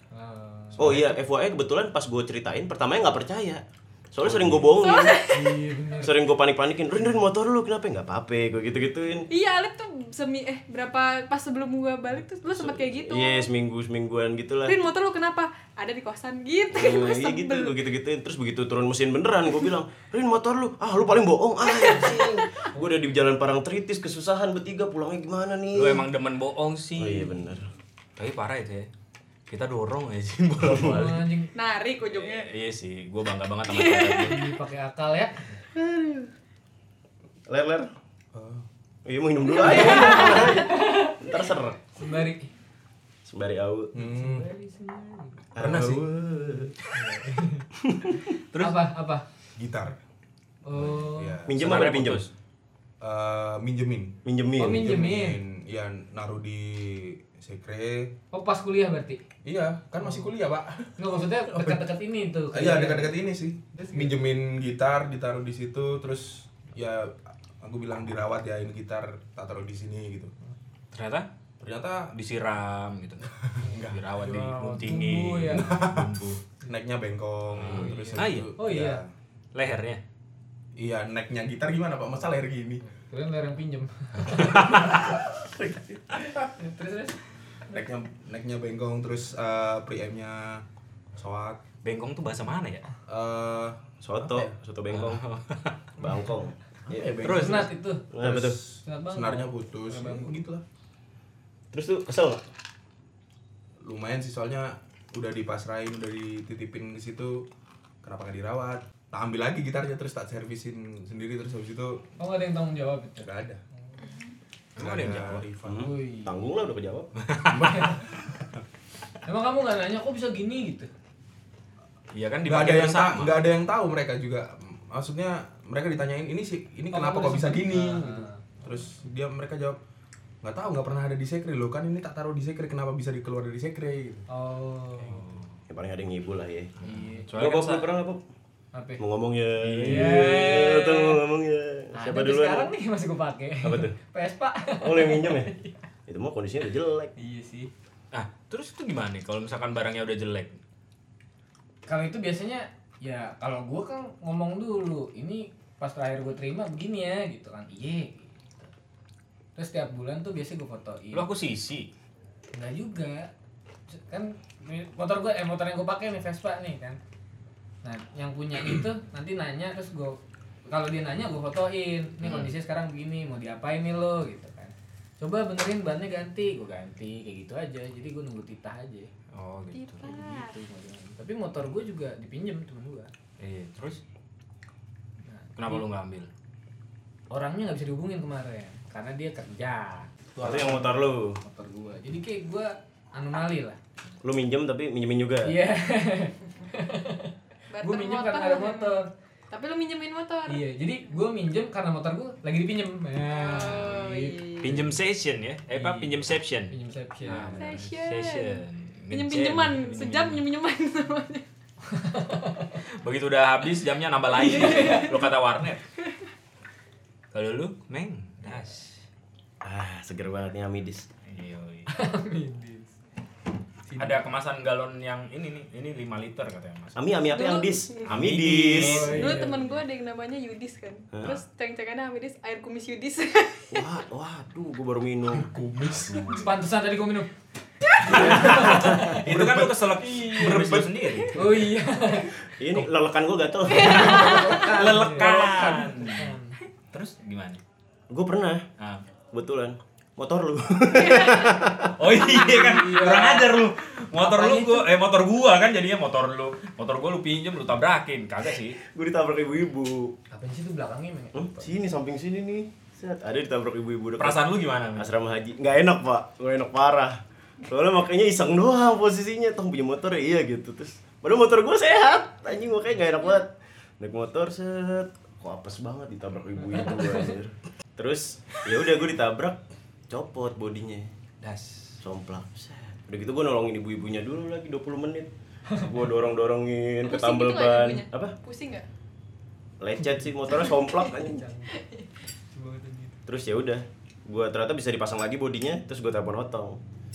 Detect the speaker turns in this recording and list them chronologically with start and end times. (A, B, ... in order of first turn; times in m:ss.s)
0:00.1-0:00.9 A
0:00.8-0:05.2 B
0:00.8-0:01.2 C
0:04.2-0:04.7 C
0:04.7-0:05.6 D
0:05.3-0:06.2 A
0:06.0-0:09.3 B
0:09.3-0:13.5 D
0:12.5-0:14.8 B
0:14.6-0:17.8 D
0:16.7-0:26.0 B
0:21.6-0:22.7 D
0:25.7-0:27.5 C
0:27.0-0:27.7 B
0:28.2-0:28.9 C
0:29.5-0:31.2 C
0:30.6-0:31.2 B
0:30.8-0:31.5 A
0:31.5-0:32.5 D
0:32.1-0:34.4 C
0:33.6-0:34.4 D
0:34.2-0:35.4 A
0:35.7-0:36.3 B
0:37.5-0:37.9 B
0:38.3-0:38.6 E
0:39.0-0:41.8 B
0:39.6-0:41.2 A
0:39.6-0:40.6 D
0:41.9-0:42.5 A
0:43.2-0:43.9 B
0:43.9-0:44.5 E
0:44.0-0:45.4 A
0:45.5-0:46.7 B
0:45.6-0:46.0 E
0:45.6-0:46.0 C
0:46.9-0:47.7 A
0:47.9-0:48.2 B
0:48.4-0:48.8 C
0:48.6-0:49.2 A
0:49.6-0:50.0 E
0:50.6-0:51.4 A
0:50.7-0:51.6 E
0:51.5-0:52.3 B
0:51.5-0:52.3 C
0:53.0-0:58.1 E
0:54.2-0:54.8 B
0:54.6-0:55.4 A
0:58.3-0:59.2 A
0:59.4-1:01.8 E
1:00.0-1:00.3 A
1:01.0-1:03.1 A
1:02.5-1:10.3 E
1:10.9-1:11.3 C
1:11.6-1:12.1 E
1:12.1-1:16.4 C
1:13.4-1:14.0 E
1:13.7-1:15.8 A
1:15.5-1:16.1 E
1:16.6-1:19.1 E
1:17.5-1:18.5 C
1:17.6-1:19.0 A
1:19.5-1:20.0 C
1:20.8-1:22.8 E
1:22.9-1:27.2 A
1:24.3-1:24.9 C
1:27.7-1:30.6 E
1:31.2-1:31.6 E
1:31.8-1:32.8 C
1:33.1-1:34.5 E
1:34.0-1:35.2 B
1:34.9-1:35.9 C
1:36.0-1:37.2 B
1:36.9-1:40.6 E
1:37.2-1:37.7 C
1:37.2-1:38.1 A
1:38.1-1:38.6 B
1:38.8-1:40.3 A
1:41.7-1:42.4 B
1:43.8-1:47.4 E
1:48.0-1:52.0 E
1:52.2-1:53.3 A
1:53.2-1:53.6 E
1:54.0-1:54.4 D
1:54.8-1:55.4 C
1:54.8-1:55.9 E
1:55.6-1:57.1 B
1:55.7-1:56.5 A
1:57.2-1:57.9 C
1:57.5-1:58.4 E
1:57.6-1:58.0 A
1:59.2-2:00.9 A
2:02.1-2:03.4 C
2:02.4-2:09.8 E
2:06.9-2:08.4 A
2:10.4-2:14.2 E
2:14.3-2:15.3 A
2:15.1-2:15.6 C
2:15.7-2:16.7 B
2:16.8-2:17.3 A
2:16.8-2:17.9 C
2:17.3-2:18.2 B
2:18.7-2:19.0 A
2:19.0-2:22.7 B
2:19.6-2:20.3 C
2:19.8-2:21.2 A
2:21.9-2:25.8 A
2:23.6-2:24.0 B
2:24.8-2:25.5 B
2:26.1-2:27.1 B
2:27.2-2:27.7 A
2:28.1-2:30.6 C
2:31.9-2:38.4 A
2:39.6-2:41.3 A
2:41.1-2:41.9 C
2:42.5-2:43.3 A
2:43.9-2:47.0 A
2:47.8-2:59.1 A
2:52.2-2:52.5 C
2:59.3-3:00.1 C
2:59.7-3:00.5 D
3:00.0-3:03.1 A
3:03.4-3:04.0 C
3:05.2-3:05.8 A
3:05.6-3:06.3 C
3:07.3-3:10.8 A
3:10.3-3:10.8 E
3:10.4-3:11.4 B
3:11.4-3:13.8 A
3:14.2-3:15.5 B
3:15.4-3:19.1 A
3:17.7-3:19.0 D
3:19.5-3:20.6 D
3:20.5-3:24.9 A
3:23.2-3:24.8 D
3:24.6-3:26.7 C
3:25.7-3:27.8 A
3:27.2-3:30.4 C
3:27.4-3:31.4 D
3:31.9-3:32.8 A
3:33.0-3:35.8 C
3:34.4-3:35.2 A
3:34.4-3:35.3 D
3:36.0-3:36.3 D
3:37.3-3:39.0 C
3:39.6-3:41.1 B
3:41.3-3:41.9 C
3:41.9-3:42.9 A
3:43.8-3:44.2 A
3:44.0-3:47.0 C
3:47.0-3:49.1 B
3:47.3-3:48.2 D
3:48.0-3:49.3 C
3:48.8-3:49.8 A
3:49.0-3:53.9 D
3:51.1-3:51.4 B
3:53.7-3:55.5 B
3:55.3-3:56.4 E
3:55.8-3:56.6 C
3:56.2-3:57.3 A
3:57.9-3:58.2 D
3:58.1-3:59.1 A
3:58.1-4:01.1 E
3:58.1-4:01.3 C
3:58.2-3:59.2 B
4:01.3-4:02.3 A
4:02.4-4:04.6 B
4:03.7-4:05.9 D
4:03.8-4:06.6 A
4:03.9-4:06.4 C
4:06.9-4:07.6 C
4:08.1-4:08.6 B
4:09.3-4:12.0 B
4:10.9-4:11.6 D
4:11.9-4:18.8 C
4:12.3-4:12.6 D
4:12.4-4:13.6 A
4:14.1-4:14.9 A
4:18.8-4:20.1 B
4:20.3-4:21.7 A
4:21.3-4:39.6 B
4:24.2-4:25.1 C
4:40.1-4:41.1 B
4:41.4-4:42.0 C
4:42.0-4:48.4 B
4:47.0-4:48.8 D
4:49.8-4:51.4 B
4:50.5-4:51.1 D
4:51.2-4:51.8 A
4:51.7-4:52.1 D
4:52.5-4:53.2 A
4:53.2-4:56.8 B